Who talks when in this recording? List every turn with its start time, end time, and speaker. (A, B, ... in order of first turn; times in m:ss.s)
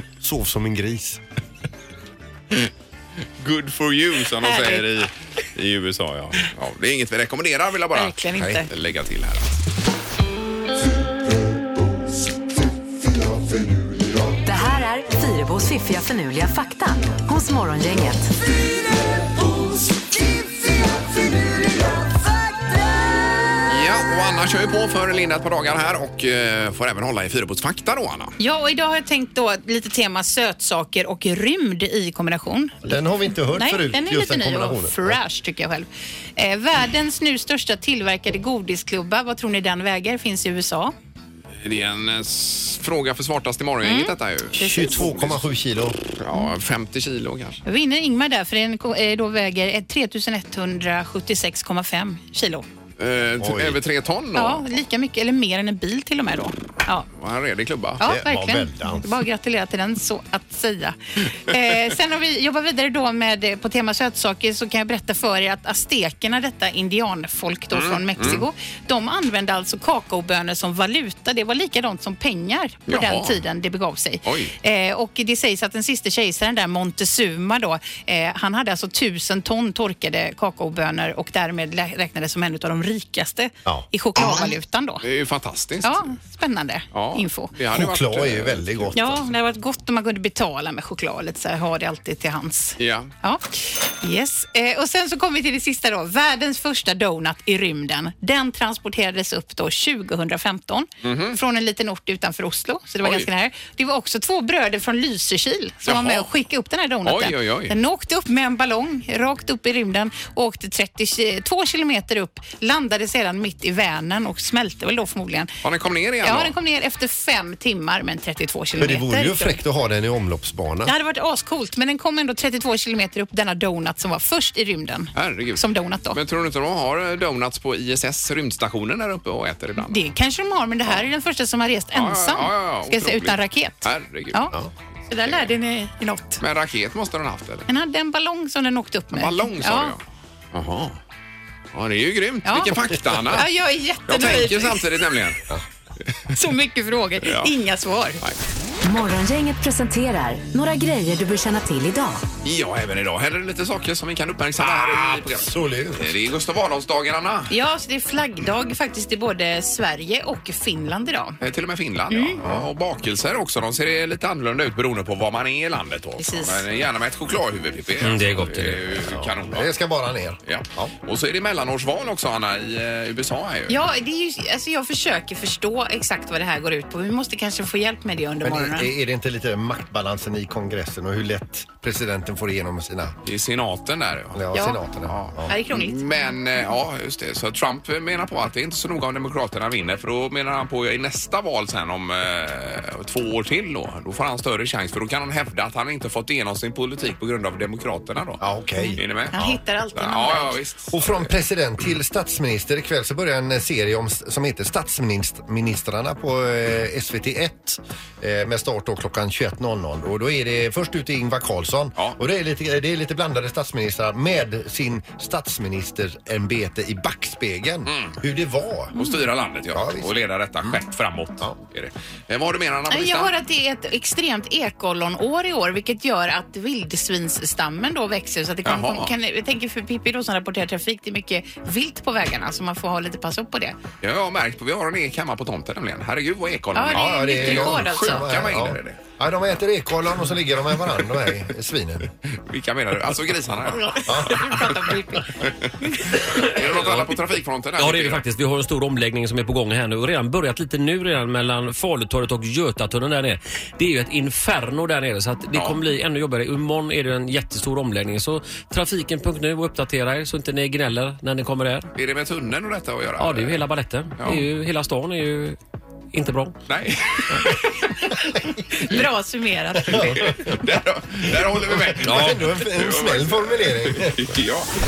0:00.2-0:01.2 A
0:03.4-0:09.6 B
0:04.4-0:04.9 C
0:07.9-0:08.7 C
0:08.4-0:08.6 A
0:14.4-0:18.3 D
0:23.7-0:28.4 B
0:28.4-0:32.8 C
0:32.8-0:35.2 A
0:33.5-0:40.9 C
0:41.6-0:45.4 B
0:43.8-0:45.0 C
0:44.6-0:46.0 A
0:46.2-0:47.6 B
0:47.7-0:52.6 C
0:53.0-0:54.7 B
0:53.4-0:53.8 A
0:54.3-0:57.1 C
0:57.2-0:58.0 B
0:58.0-1:25.0 C
0:58.0-0:59.2 A
1:07.7-1:08.5 B
1:12.9-1:13.4 B
1:14.2-1:14.5 B
1:25.0-1:26.1 B
1:25.8-1:27.5 C
1:26.9-1:29.2 B
1:27.7-1:29.2 A
1:29.0-1:55.6 C
1:32.8-1:33.1 B
1:41.0-1:41.4 B
1:45.8-1:46.3 B
1:47.0-1:47.8 B
1:55.6-1:56.5 B
1:56.2-1:59.6 C
1:58.8-2:00.9 A
2:00.8-2:06.2 C
2:05.2-2:10.1 B
2:09.8-2:14.6 C
2:11.9-2:14.5 B
2:15.1-2:16.4 C
2:16.4-2:17.7 B
2:17.7-2:20.0 C
2:19.1-2:20.0 B
2:20.5-2:21.0 B
2:21.7-2:23.5 B
2:22.4-2:25.0 C
2:24.1-2:25.5 B
2:26.1-2:26.4 B
2:26.3-2:28.2 C
2:27.2-2:27.5 B
2:28.8-2:32.2 D
2:32.4-2:37.5 B
2:34.6-2:36.1 A
2:37.5-2:41.4 C
2:41.4-2:49.7 B
2:42.1-2:42.4 C
2:42.4-2:42.7 A
2:46.2-2:46.7 C
2:48.0-2:48.8 E
2:49.1-2:50.9 A
2:50.4-2:53.8 B
2:53.7-2:58.9 C
2:58.4-3:03.2 A
3:03.2-3:04.4 B
3:04.4-3:05.6 A
3:04.5-3:04.8 C
3:05.0-3:18.4 B
3:05.5-3:06.4 C
3:18.4-3:19.6 A
3:18.8-3:20.6 C
3:19.0-3:21.3 B
3:20.9-3:39.0 A
3:37.9-3:38.1 B
3:38.9-3:43.3 B
3:39.7-3:40.1 A
3:42.9-3:53.8 C
3:48.6-3:49.1 B
3:54.0-3:59.0 B
3:56.7-3:58.2 C
3:56.9-4:02.1 A
4:02.3-4:04.5 B
4:03.8-4:05.3 C
4:04.1-4:04.6 A
4:05.4-4:05.7 B
4:06.4-4:08.3 B
4:06.8-4:07.1 A
4:07.8-4:21.9 E
4:15.5-4:15.8 B
4:22.0-4:23.7 B
4:23.2-4:25.6 E
4:24.2-4:24.4 B
4:26.1-4:26.6 E
4:26.7-4:28.0 B
4:28.7-4:30.3 C
4:29.9-4:34.7 B
4:32.0-4:34.3 A